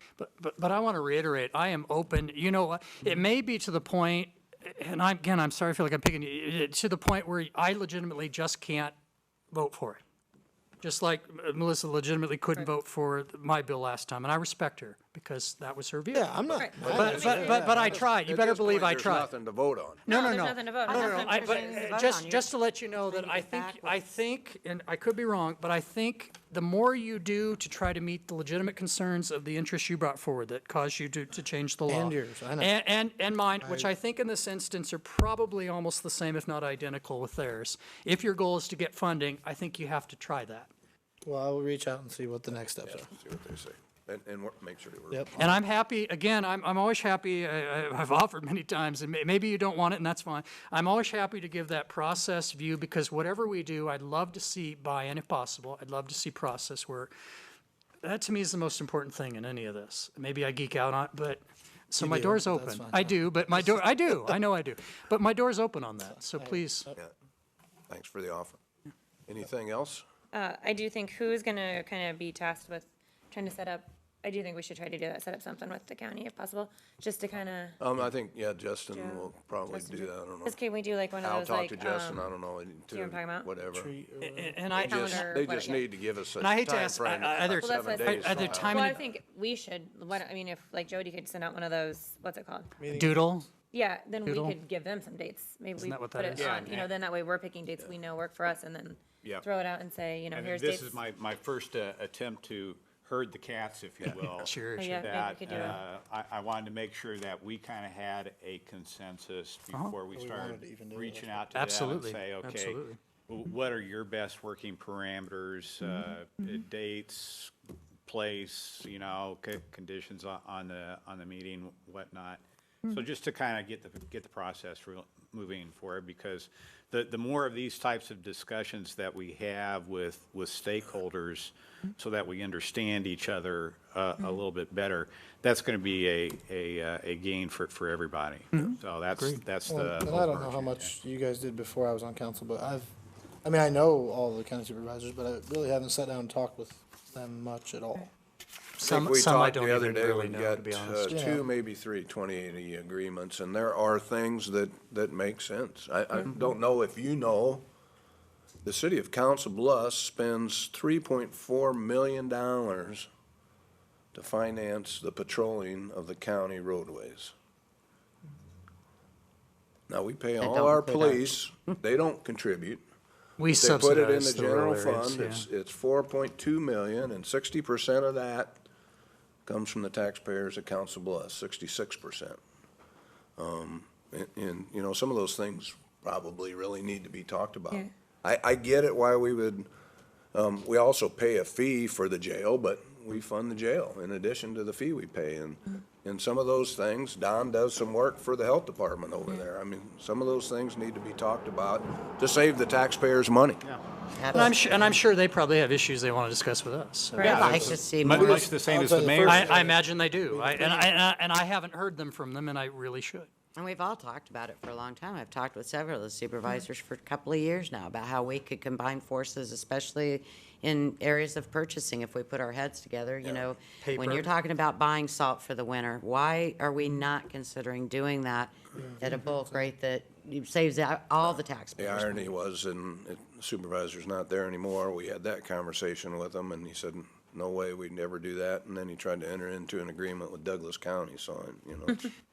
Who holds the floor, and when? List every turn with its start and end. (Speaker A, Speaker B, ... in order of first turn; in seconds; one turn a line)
Speaker A: 0.2-8.9
Speaker A: 9.5-10.0
Speaker A: 10.8-19.3
Speaker B: 16.1-18.0
Speaker C: 16.5-18.0
Speaker D: 16.8-17.5
Speaker D: 18.1-20.0
Speaker A: 20.1-40.7
Speaker C: 20.1-21.9
Speaker E: 20.9-24.0
Speaker B: 31.9-32.7
Speaker B: 33.6-33.9
Speaker B: 41.2-43.1
Speaker D: 42.8-45.6
Speaker A: 45.4-57.1
Speaker A: 58.0-66.9
Speaker B: 62.0-63.8
Speaker B: 66.3-66.9
Speaker D: 67.9-68.6
Speaker D: 69.3-70.0
Speaker C: 70.3-77.8
Speaker D: 77.8-80.6
Speaker C: 78.9-82.3
Speaker D: 81.2-83.9
Speaker C: 82.9-83.5
Speaker B: 83.7-84.7
Speaker A: 84.2-85.4
Speaker C: 84.7-85.9
Speaker D: 84.7-88.9
Speaker A: 86.4-89.0
Speaker C: 87.5-92.7
Speaker B: 92.8-93.3
Speaker A: 92.9-93.5
Speaker C: 93.7-101.0
Speaker A: 94.2-94.6
Speaker A: 95.8-96.8
Speaker F: 96.3-96.9
Speaker F: 100.3-117.5
Speaker A: 104.1-105.8
Speaker C: 104.8-105.8
Speaker B: 110.1-111.5
Speaker A: 111.5-113.0
Speaker F: 118.0-140.9
Speaker A: 138.5-139.4
Speaker B: 139.7-142.9
Speaker B: 143.4-148.1
Speaker A: 148.8-151.2
Speaker D: 148.8-157.6
Speaker B: 151.1-151.5
Speaker D: 158.6-163.1
Speaker D: 164.1-167.3
Speaker D: 169.9-172.8
Speaker E: 170.4-171.8
Speaker A: 173.4-175.5
Speaker D: 173.5-178.6
Speaker D: 179.4-182.4
Speaker D: 183.4-189.7
Speaker D: 190.3-203.6
Speaker E: 204.1-204.9
Speaker A: 204.3-207.5
Speaker B: 207.2-210.9
Speaker F: 207.2-209.6
Speaker E: 207.2-208.4
Speaker A: 209.2-213.3
Speaker E: 213.5-232.3
Speaker D: 223.2-223.6
Speaker A: 223.8-224.3
Speaker B: 228.8-229.7
Speaker D: 231.2-242.1